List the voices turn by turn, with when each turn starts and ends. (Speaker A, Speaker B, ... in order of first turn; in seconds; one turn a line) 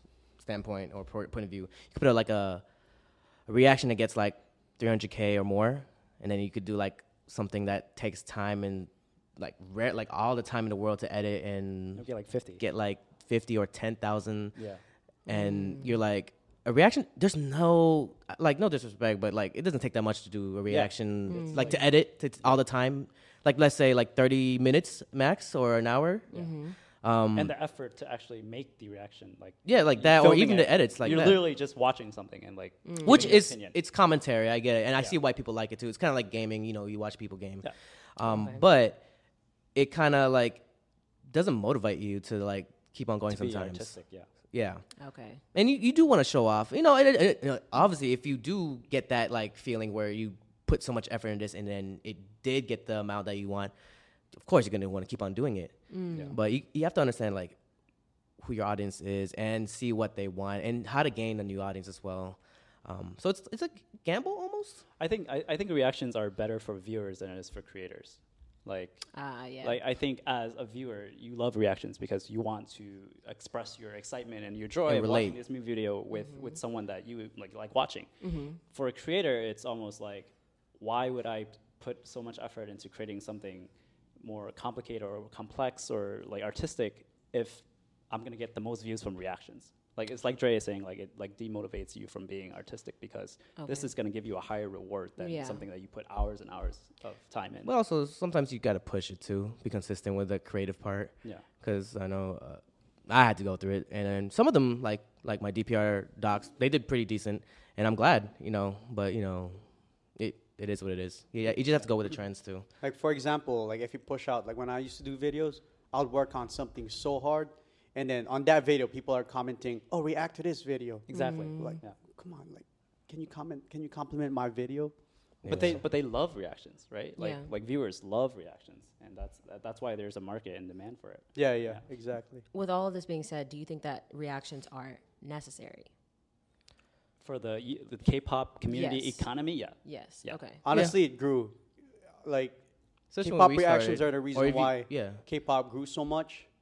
Speaker A: 0.4-2.6
Speaker A: 3.5-12.0
Speaker B: 11.9-12.6
Speaker A: 12.6-14.6
Speaker B: 14.6-14.8
Speaker A: 15.3-26.3
Speaker C: 15.3-15.9
Speaker B: 20.7-21.8
Speaker C: 21.3-21.8
Speaker C: 26.3-26.8
Speaker A: 27.0-27.5
Speaker B: 27.3-33.8
Speaker A: 29.6-31.4
Speaker C: 32.9-33.4
Speaker A: 33.0-39.0
Speaker C: 38.3-38.6
Speaker A: 39.7-40.6
Speaker A: 41.3-43.9
Speaker B: 43.3-44.3
Speaker A: 44.5-44.8
Speaker C: 45.0-45.4
Speaker A: 45.5-53.7
Speaker A: 54.3-57.5
Speaker C: 55.9-56.4
Speaker A: 58.4-64.8
Speaker B: 65.0-69.1
Speaker C: 69.1-69.8
Speaker B: 69.6-78.1
Speaker A: 74.8-75.4
Speaker C: 78.2-78.6
Speaker B: 78.7-97.7
Speaker C: 93.6-93.9
Speaker C: 95.2-95.6
Speaker A: 97.6-109.6
Speaker A: 110.2-112.6
Speaker D: 112.8-124.9
Speaker B: 121.1-122.0
Speaker C: 121.1-121.8
Speaker A: 125.4-125.8
Speaker B: 125.5-131.8
Speaker C: 127.2-127.5
Speaker D: 131.3-132.4
Speaker C: 132.5-135.9
Speaker B: 137.2-140.4
Speaker C: 138.7-139.3
Speaker C: 139.8-140.6
Speaker D: 140.6-141.6
Speaker D: 142.2-142.6
Speaker A: 143.1-145.2
Speaker D: 143.2-146.5